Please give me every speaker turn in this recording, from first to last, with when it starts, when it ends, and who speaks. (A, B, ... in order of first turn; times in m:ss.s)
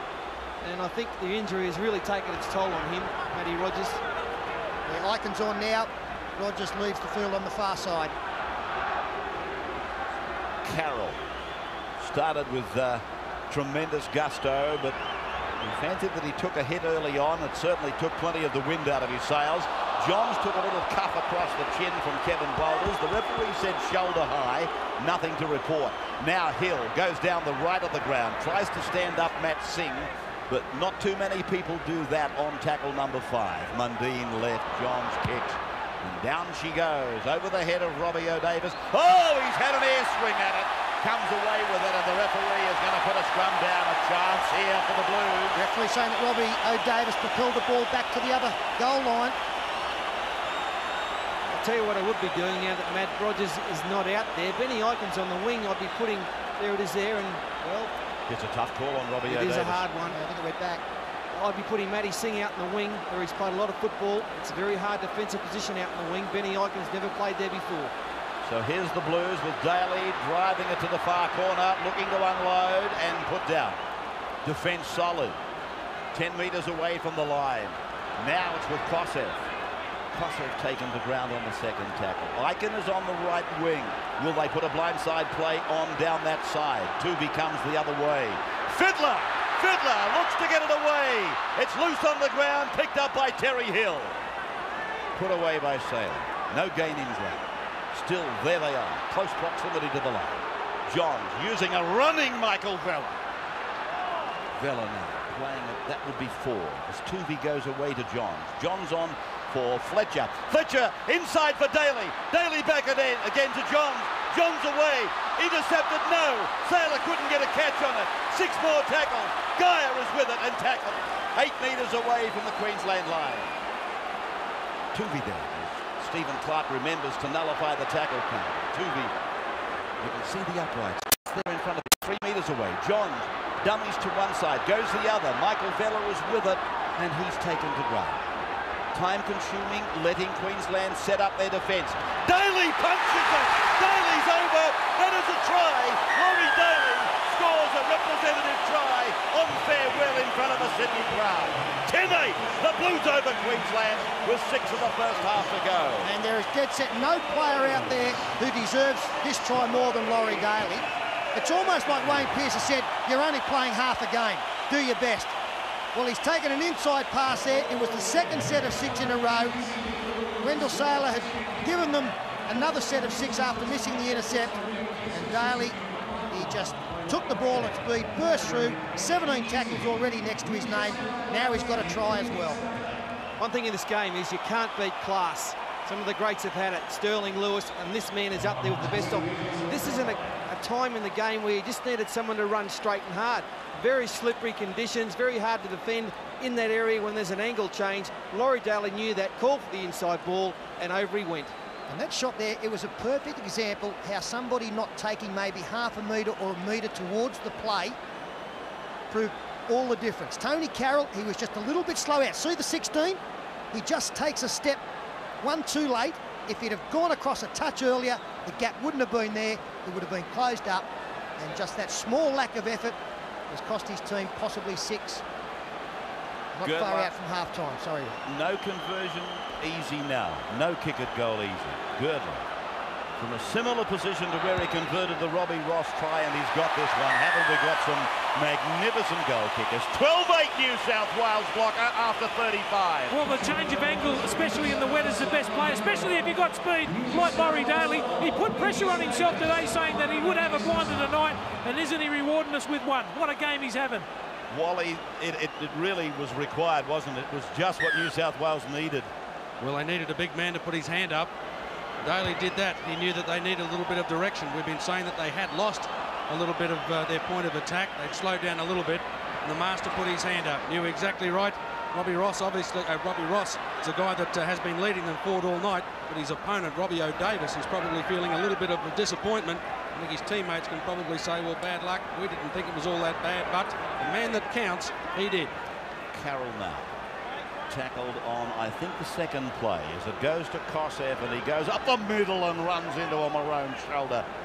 0:00.6-0:04.0 A
0:04.8-0:08.1 B
0:10.6-0:11.2 C
0:12.0-0:15.0 C
0:15.6-0:45.6 C
0:45.5-0:49.4 B
0:51.5-0:57.9 A
0:58.3-0:59.8 C
0:59.3-1:00.2 A
1:00.0-1:00.8 B
1:01.3-1:07.9 A
1:08.4-1:13.8 C
1:14.4-1:15.4 C
1:16.1-1:19.5 C
1:20.1-1:34.2 C
1:35.1-1:43.2 C
1:44.5-2:03.5 C
2:04.9-2:09.2 C
2:10.0-2:18.3 C
2:18.9-2:36.1 C
2:36.0-2:45.3 B
2:45.9-2:49.6 B
2:50.4-2:54.6 B
2:55.1-2:55.8 B
2:56.3-3:02.6 B
3:03.4-3:21.5 A
3:21.9-3:28.0 B
3:29.1-3:33.2 B
3:33.7-3:34.8 B
3:35.4-3:40.9 B
3:41.4-3:43.0 B
3:43.5-3:45.2 B
3:46.5-3:48.2 B
3:46.6-3:47.1 C
3:48.2-3:52.4 C
3:53.2-4:03.2 C
4:03.1-4:14.0 D
4:14.5-4:19.1 C
4:19.6-4:21.3 E
4:22.0-4:45.5 E
4:46.1-4:47.0 C
4:47.7-4:54.2 C